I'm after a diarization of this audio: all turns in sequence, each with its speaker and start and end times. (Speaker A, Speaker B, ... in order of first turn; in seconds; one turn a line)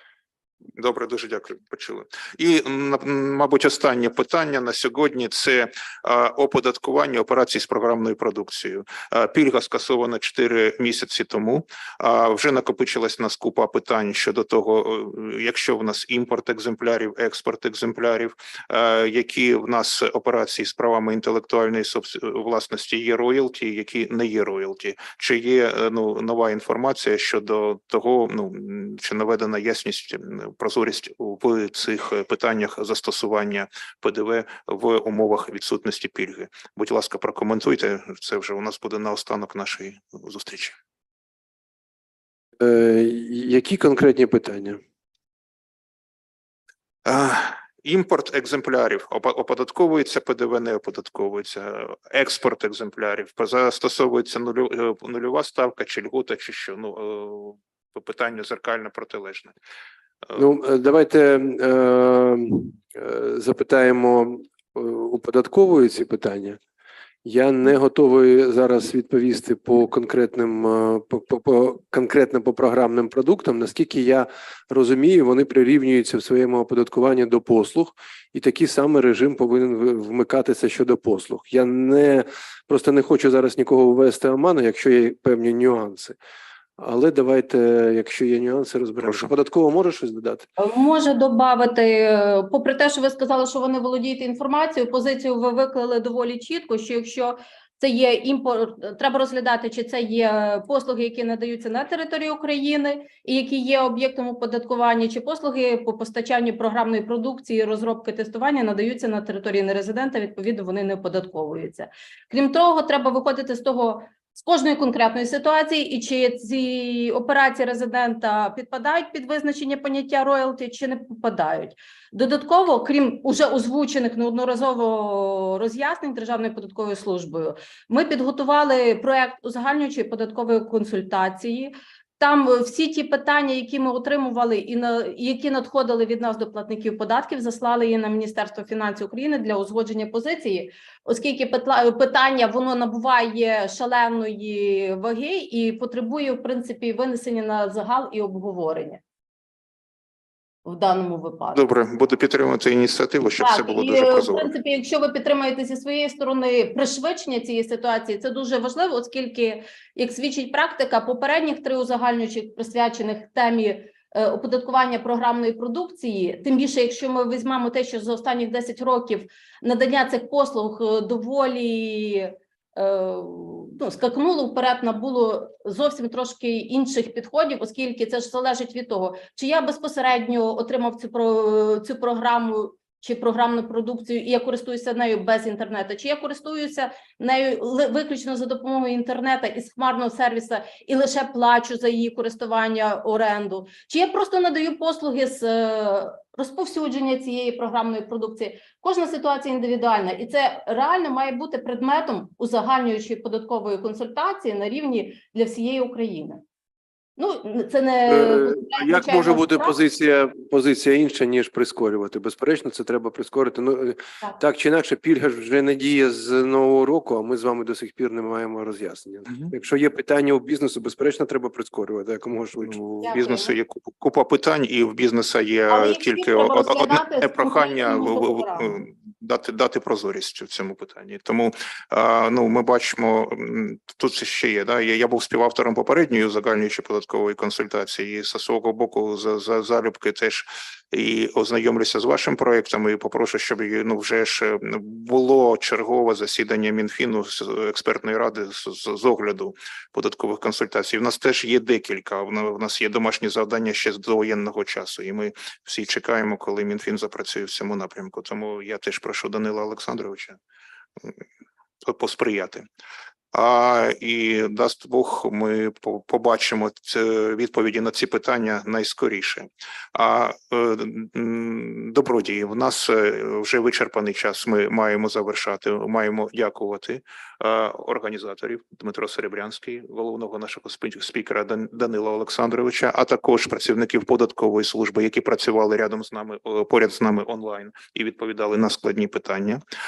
Speaker A: 0.8-40.8
Speaker B: 42.6-44.8
Speaker A: 47.0-59.5
Speaker B: 60.4-66.6
Speaker B: 67.2-86.2
Speaker B: 86.8-90.5
Speaker C: 90.6-149.0
Speaker C: 150.7-151.6
Speaker A: 151.5-154.5
Speaker C: 153.4-206.4
Speaker C: 207.2-209.8
Speaker B: 208.1-222.8
Speaker A: 222.6-260.4
Speaker C: 223.0-223.6
Speaker C: 225.7-228.7
Speaker A: 261.9-262.6
Speaker A: 263.3-289.6